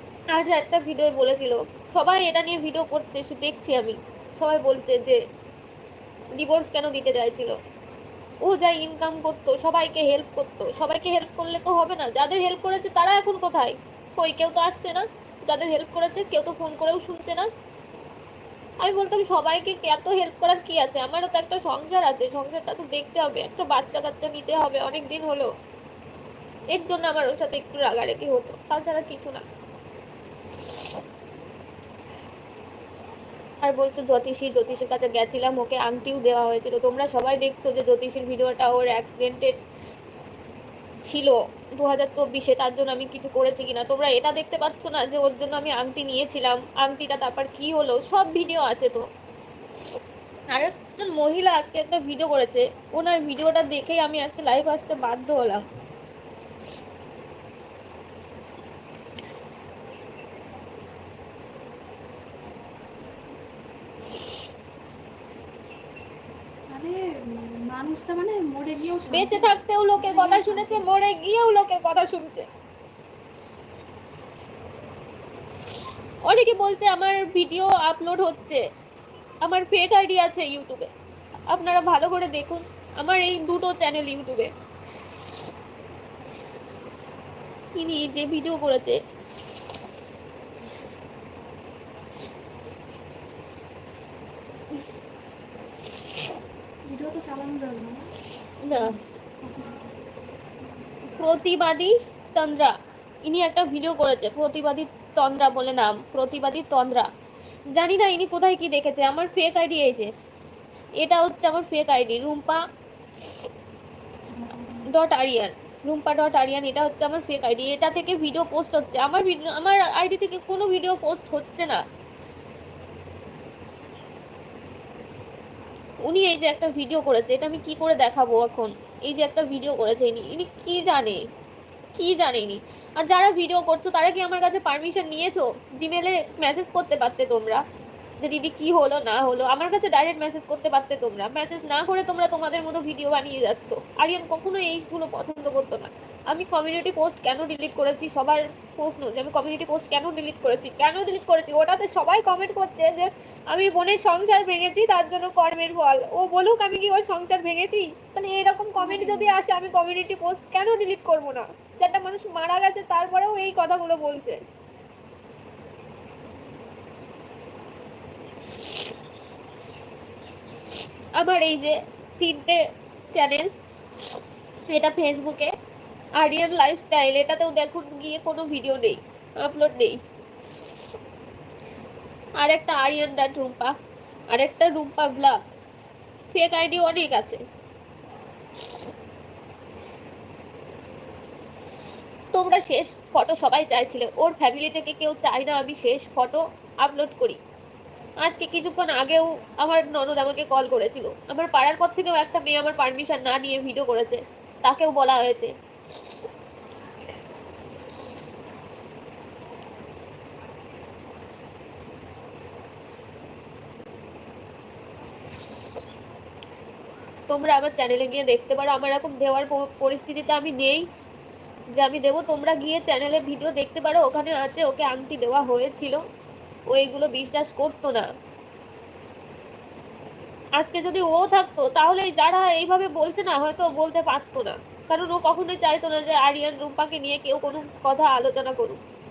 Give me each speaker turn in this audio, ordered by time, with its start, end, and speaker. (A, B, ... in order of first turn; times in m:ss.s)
0:00.3-0:05.2 A
0:06.4-0:07.6 A
0:08.4-0:17.5 A
0:18.8-0:25.5 A
0:26.7-0:29.4 A
0:30.6-0:31.0 A
0:33.6-0:39.6 A
0:41.1-0:49.1 A
0:50.5-0:55.6 A
1:06.7-1:10.9 B
1:09.1-1:12.5 A
1:16.3-1:18.6 A
1:19.4-1:20.9 A
1:21.5-1:24.5 A
1:27.8-1:29.0 A
1:36.9-1:38.1 B
1:38.6-1:39.0 A
1:38.9-1:40.0 B
1:41.1-1:42.7 A
1:43.2-1:47.1 A
1:47.7-1:50.1 A
1:51.0-1:52.6 A
1:54.3-1:54.9 B
1:54.9-2:01.8 A
2:06.0-2:11.2 A
2:12.0-2:17.6 A
2:18.2-2:44.4 A
2:38.8-2:39.4 B
2:51.2-2:52.6 A
2:53.1-2:53.5 A
2:54.7-2:55.5 A
2:56.2-3:00.0 A
3:02.4-3:03.7 A
3:04.3-3:05.4 A
3:06.3-3:07.4 A
3:12.3-3:17.4 A
3:18.2-3:25.5 A
3:37.3-3:40.9 A
3:41.8-3:46.0 A
3:46.7-3:48.1 A
3:50.6-3:58.8 A